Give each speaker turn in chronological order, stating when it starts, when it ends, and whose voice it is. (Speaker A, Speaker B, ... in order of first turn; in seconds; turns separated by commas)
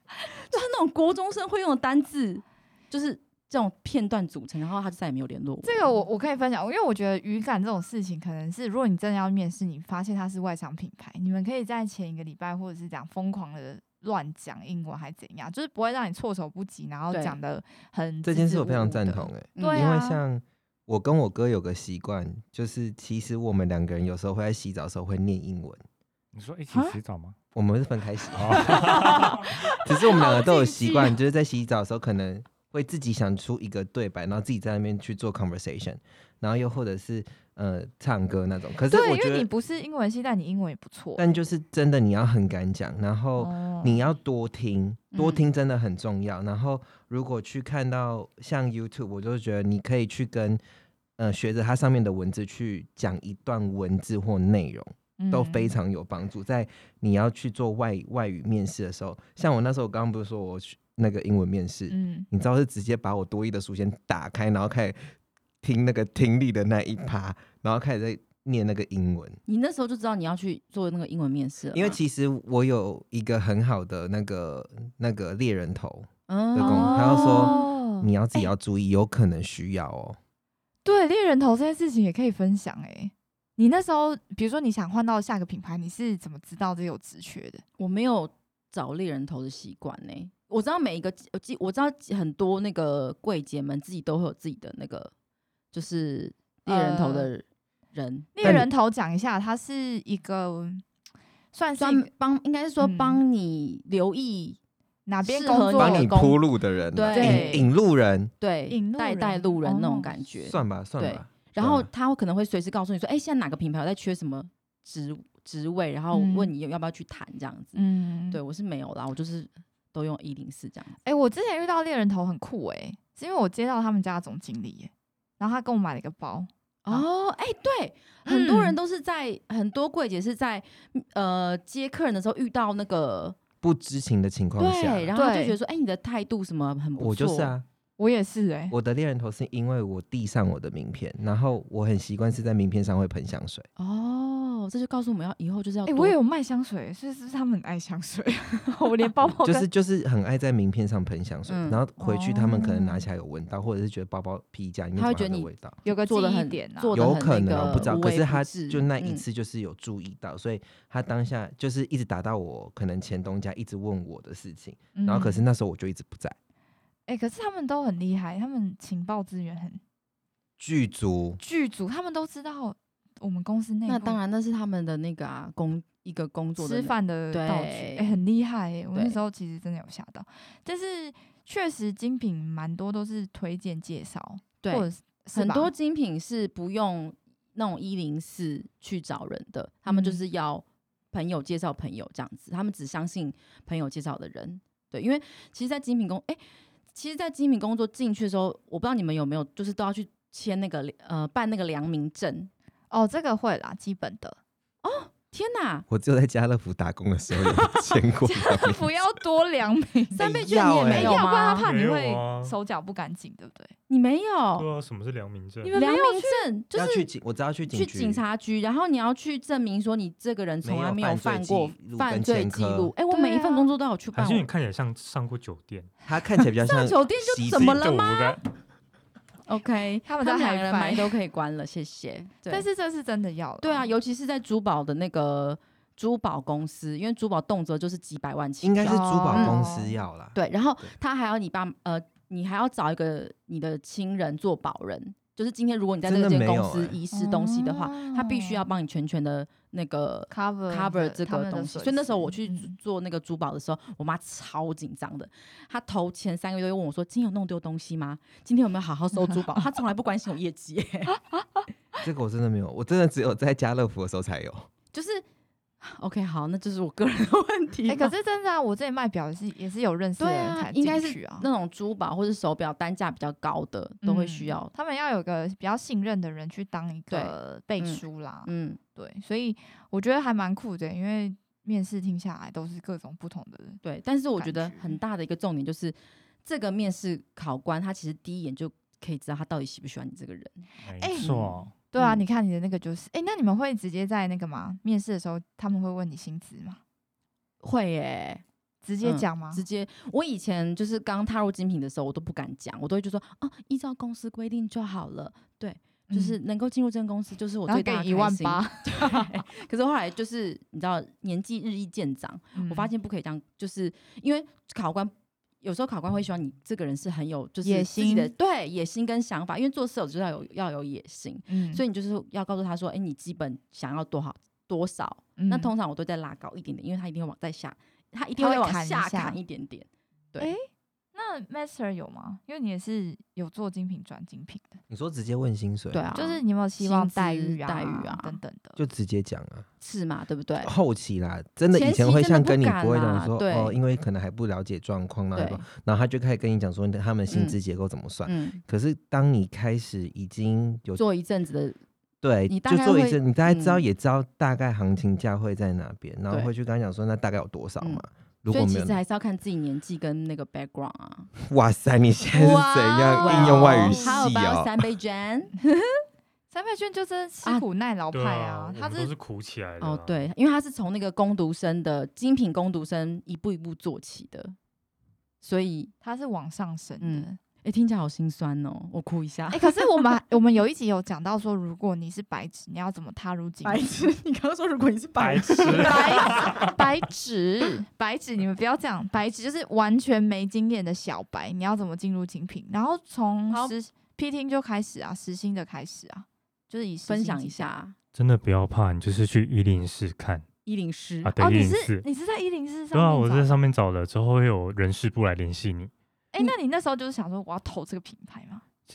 Speaker A: 0.2-6.0, Speaker B: 5.6-20.2, Speaker A: 17.1-17.4, Speaker C: 18.2-25.8, Speaker A: 19.6-19.9, Speaker D: 26.3-27.4, Speaker B: 26.7-27.0, Speaker C: 27.6-39.5, Speaker D: 28.4-29.4, Speaker B: 28.7-31.1, Speaker B: 38.9-41.2, Speaker C: 41.2-50.6, Speaker B: 43.4-44.0, Speaker A: 45.1-45.4, Speaker C: 51.2-65.0, Speaker B: 55.2-55.8, Speaker B: 61.9-62.3, Speaker C: 65.6-69.4, Speaker A: 69.5-72.0, Speaker C: 71.7-80.2, Speaker A: 76.3-77.7, Speaker B: 76.6-78.5, Speaker B: 80.8-87.6, Speaker A: 87.8-95.1, Speaker A: 95.7-98.6, Speaker B: 96.7-97.3, Speaker B: 98.3-100.8, Speaker C: 98.4-98.7, Speaker B: 101.5-102.1, Speaker A: 101.8-104.6, Speaker B: 102.8-103.2, Speaker B: 105.1-106.3, Speaker A: 105.2-106.4, Speaker C: 105.8-108.3, Speaker A: 106.9-107.7, Speaker B: 107.1-107.7, Speaker A: 108.4-121.0, Speaker B: 108.7-110.2, Speaker C: 110.4-111.9, Speaker B: 116.1-116.5, Speaker B: 117.7-118.4, Speaker B: 121.0-127.1, Speaker A: 126.9-133.4, Speaker B: 128.2-128.8, Speaker C: 133.6-135.1, Speaker A: 134.6-137.6, Speaker B: 135.1-135.6, Speaker C: 137.0-137.7, Speaker B: 138.0-138.7, Speaker C: 138.7-143.7, Speaker A: 143.8-146.2, Speaker B: 145.9-149.7, Speaker C: 149.3-155.8, Speaker A: 151.5-151.8, Speaker B: 152.0-153.0, Speaker A: 154.9-159.2, Speaker B: 155.8-157.9, Speaker C: 156.9-166.4, Speaker B: 164.9-165.4, Speaker B: 167.1-169.8, Speaker C: 170.6-171.4, Speaker B: 171.4-174.2, Speaker A: 173.9-178.2, Speaker B: 176.6-185.7, Speaker A: 178.9-179.2, Speaker A: 184.6-196.4, Speaker B: 189.9-190.2, Speaker A: 196.9-202.5, Speaker B: 202.9-204.4, Speaker A: 204.8-205.8, Speaker C: 205.9-208.9, Speaker B: 208.0-213.7, Speaker A: 210.1-211.7, Speaker C: 210.2-211.3, Speaker E: 211.6-212.6, Speaker A: 213.9-214.7, Speaker E: 214.6-215.7, Speaker B: 215.6-216.4, Speaker A: 215.7-217.1, Speaker C: 216.7-218.2, Speaker A: 217.7-224.5, Speaker C: 220.6-222.9, Speaker B: 223.1-223.7, Speaker E: 224.1-225.9, Speaker C: 226.1-227.9, Speaker A: 226.6-228.4, Speaker E: 227.5-228.4, Speaker D: 227.8-228.1, Speaker A: 229.5-232.7, Speaker B: 230.1-231.2, Speaker B: 232.5-233.9, Speaker A: 233.6-239.6, Speaker C: 238.6-240.9, Speaker B: 238.8-240.0, Speaker A: 240.3-261.2, Speaker C: 246.1-247.0, Speaker B: 247.1-248.7, Speaker B: 250.3-252.7, Speaker B: 259.1-259.7, Speaker B: 261.4-261.6, Speaker C: 262.0-264.7, Speaker A: 264.9-265.2, Speaker A: 265.8-268.1, Speaker B: 267.9-271.5, Speaker A: 270.2-274.7, Speaker B: 274.0-283.8, Speaker A: 277.1-278.8, Speaker A: 283.8-290.6, Speaker B: 284.4-285.0, Speaker D: 290.8-291.8, Speaker B: 291.0-296.8, Speaker A: 291.2-292.2, Speaker A: 297.6-298.4, Speaker B: 298.8-299.6, Speaker A: 299.0-330.5, Speaker B: 306.1-306.4, Speaker B: 307.7-309.4, Speaker B: 312.6-312.9, Speaker B: 317.6-318.3, Speaker B: 321.5-321.8, Speaker B: 325.4-325.7, Speaker B: 328.4-329.4, Speaker B: 331.1-334.8, Speaker C: 334.9-336.1, Speaker A: 335.9-338.4, Speaker B: 336.1-338.8, Speaker C: 338.8-339.7, Speaker A: 339.8-340.7, Speaker C: 340.6-351.0, Speaker A: 341.7-343.8, Speaker A: 345.4-345.6, Speaker A: 347.3-347.6, Speaker A: 348.2-348.6, Speaker A: 351.0-351.8, Speaker C: 352.2-359.0, Speaker A: 352.5-353.8, Speaker A: 357.8-361.3, Speaker C: 361.4-364.7, Speaker B: 362.3-364.2, Speaker A: 363.2-365.5, Speaker B: 365.6-366.0, Speaker B: 366.5-369.1, Speaker E: 368.1-370.3, Speaker A: 369.8-374.6, Speaker A: 375.4-375.9, Speaker B: 376.0-377.4, Speaker A: 377.0-379.8, Speaker B: 379.5-383.9, Speaker A: 383.6-386.8, Speaker E: 385.2-386.7, Speaker D: 385.2-385.8, Speaker B: 385.8-397.7, Speaker A: 393.5-393.8, Speaker A: 397.1-397.9, Speaker E: 398.1-400.4, Speaker A: 400.7-401.3, Speaker E: 401.2-402.0, Speaker B: 401.4-403.6, Speaker E: 402.9-405.9, Speaker B: 406.3-408.6